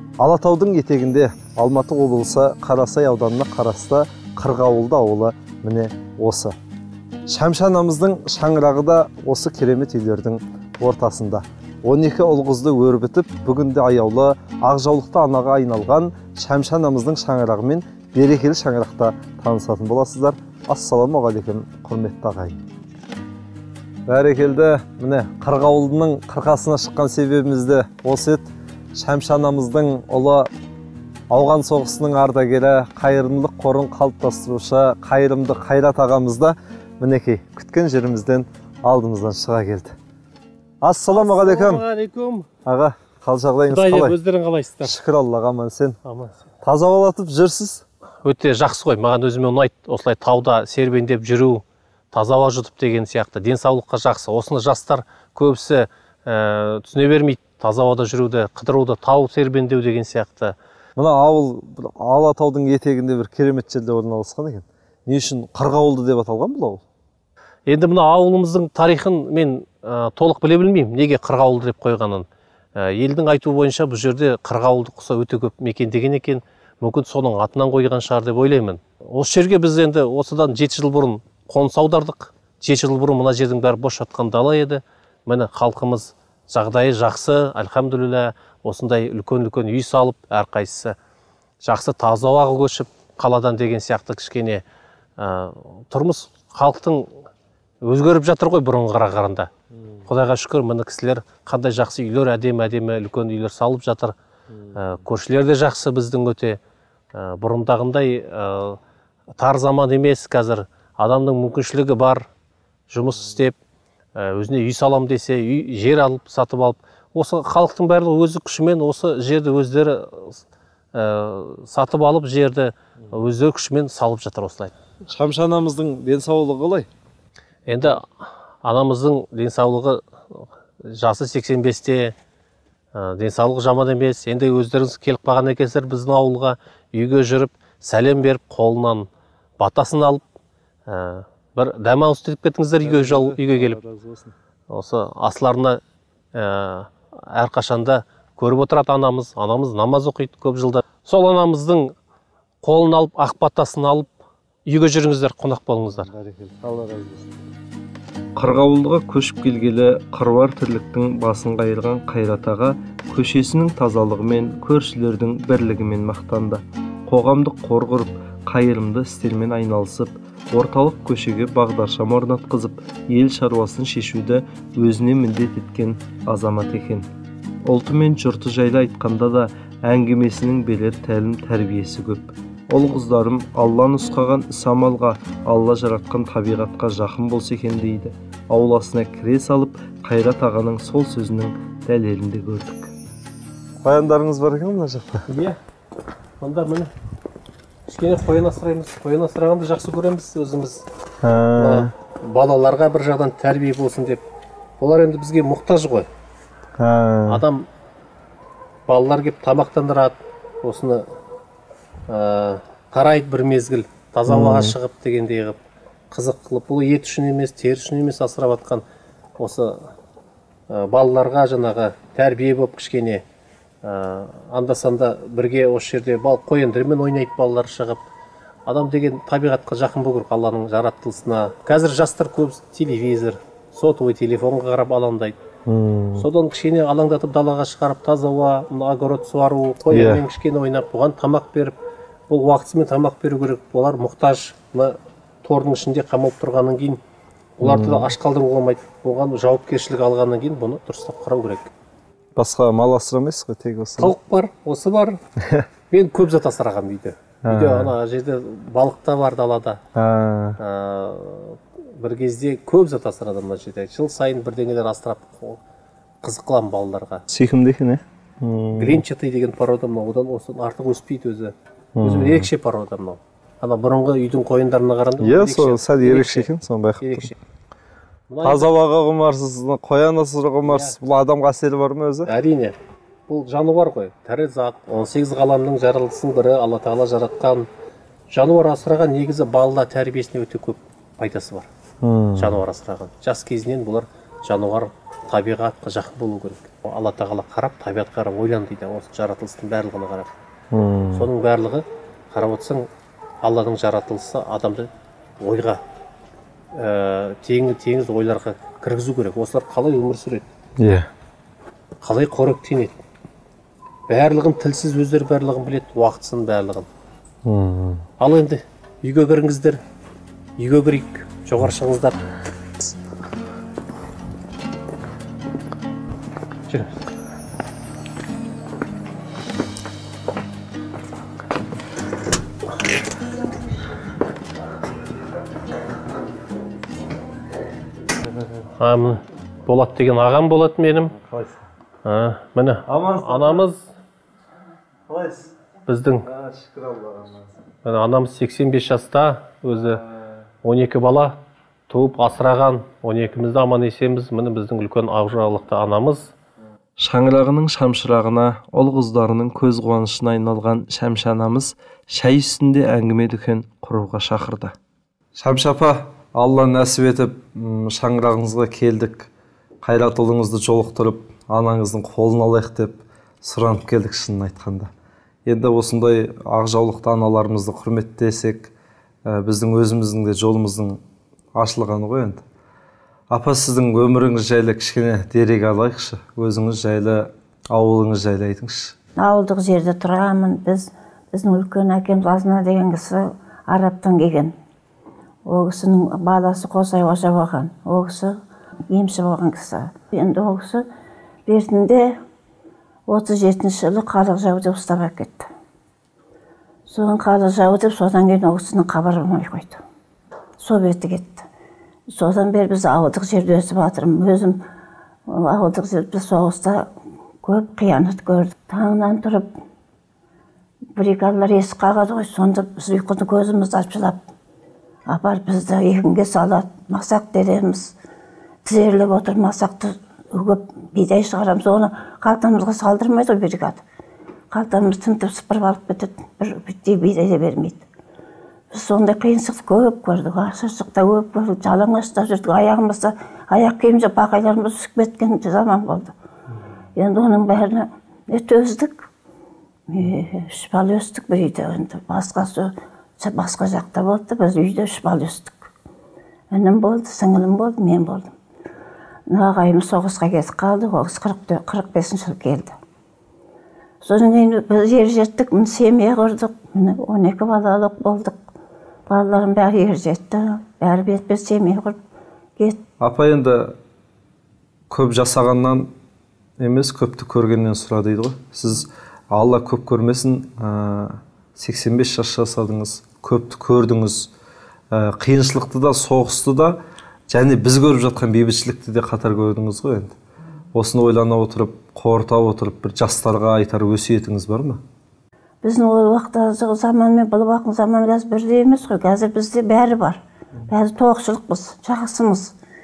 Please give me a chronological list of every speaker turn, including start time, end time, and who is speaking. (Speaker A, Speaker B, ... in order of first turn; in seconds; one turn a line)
Speaker A: 0.2-6.5
Speaker A: 7.3-22.6
Speaker A: 24.1-30.5
Speaker A: 31.3-39.9
Speaker A: 40.8-41.8
Speaker B: 41.1-42.5
Speaker A: 42.6-44.2
Speaker B: 43.7-45.0
Speaker A: 44.8-46.0
Speaker B: 46.0-46.4
Speaker A: 46.6-47.8
Speaker B: 48.2-60.5
Speaker A: 61.0-66.8
Speaker B: 67.7-91.0
Speaker B: 91.6-94.6
Speaker B: 95.2-97.1
Speaker B: 97.8-99.5
Speaker B: 100.0-104.2
Speaker B: 104.7-106.6
Speaker B: 107.1-108.8
Speaker B: 109.4-112.3
Speaker B: 112.9-113.6
Speaker B: 114.2-120.4
Speaker B: 120.9-124.7
Speaker A: 125.1-126.9
Speaker B: 127.7-132.1
Speaker B: 132.9-139.1
Speaker B: 139.6-140.2
Speaker B: 140.9-143.8
Speaker A: 142.8-144.3
Speaker B: 144.7-145.8
Speaker B: 146.3-151.9
Speaker B: 152.6-154.1
Speaker B: 154.7-156.1
Speaker A: 156.0-157.5
Speaker A: 158.4-177.1
Speaker A: 177.7-192.9
Speaker A: 193.8-195.2
Speaker B: 195.3-195.6
Speaker B: 196.4-196.9
Speaker B: 197.9-200.8
Speaker A: 201.2-201.9
Speaker B: 201.5-204.2
Speaker B: 204.8-206.1
Speaker A: 206.8-207.4
Speaker B: 207.3-207.7
Speaker B: 208.9-211.1
Speaker B: 212.1-215.6
Speaker A: 214.3-214.7
Speaker B: 216.1-218.8
Speaker B: 219.4-219.8
Speaker B: 220.7-223.2
Speaker B: 223.8-228.0
Speaker B: 228.7-235.3
Speaker A: 235.7-236.3
Speaker B: 236.2-241.8
Speaker A: 239.9-240.2
Speaker B: 242.3-247.0
Speaker B: 247.6-251.7
Speaker A: 247.6-248.1
Speaker A: 252.3-254.1
Speaker B: 254.0-255.2
Speaker A: 255.4-255.7
Speaker B: 255.9-259.8
Speaker A: 257.4-257.9
Speaker A: 259.9-260.6
Speaker B: 260.6-265.6
Speaker B: 266.2-267.2
Speaker A: 267.3-269.0
Speaker B: 268.8-276.5
Speaker A: 271.9-272.5
Speaker A: 275.2-277.3
Speaker B: 277.0-277.4
Speaker B: 278.3-278.7
Speaker A: 278.4-282.3
Speaker B: 280.6-280.9
Speaker B: 282.2-282.8
Speaker B: 283.3-287.7
Speaker B: 288.3-291.7
Speaker A: 292.0-292.6
Speaker B: 292.4-300.3
Speaker A: 300.7-301.3
Speaker B: 301.1-302.9
Speaker B: 303.4-305.8
Speaker B: 306.7-310.5
Speaker A: 310.8-311.1
Speaker B: 312.0-313.0
Speaker B: 314.1-316.9
Speaker A: 317.4-318.0
Speaker B: 318.2-319.8
Speaker B: 320.6-322.2
Speaker B: 326.7-326.9
Speaker B: 338.8-341.1
Speaker A: 341.1-341.6
Speaker B: 342.0-343.9
Speaker A: 342.9-343.6
Speaker A: 345.1-345.5
Speaker B: 345.9-346.2
Speaker A: 346.2-347.5
Speaker B: 347.8-350.0
Speaker B: 350.6-351.4
Speaker B: 351.9-356.3
Speaker A: 357.0-364.7
Speaker A: 365.3-369.3
Speaker A: 369.8-374.9
Speaker A: 375.4-378.7
Speaker A: 379.2-381.0
Speaker A: 381.6-382.4
Speaker A: 383.3-388.9
Speaker C: 389.2-394.5
Speaker C: 395.4-398.4
Speaker C: 398.9-400.9
Speaker C: 401.5-402.2
Speaker C: 403.1-405.5
Speaker C: 406.9-409.8
Speaker C: 410.6-411.5
Speaker C: 412.1-414.6
Speaker C: 415.3-416.9
Speaker C: 417.4-419.5
Speaker C: 420.9-424.2
Speaker C: 425.1-427.9
Speaker C: 428.6-433.8
Speaker C: 434.5-437.8
Speaker C: 438.7-446.1
Speaker C: 446.9-449.1
Speaker C: 449.9-455.7
Speaker C: 456.5-458.3
Speaker C: 459.3-462.8
Speaker C: 464.0-468.4
Speaker C: 469.1-472.0
Speaker A: 473.0-473.7
Speaker A: 474.9-475.9
Speaker A: 476.6-484.3
Speaker A: 484.9-486.8
Speaker A: 487.3-490.1
Speaker A: 490.7-494.8
Speaker C: 495.6-502.5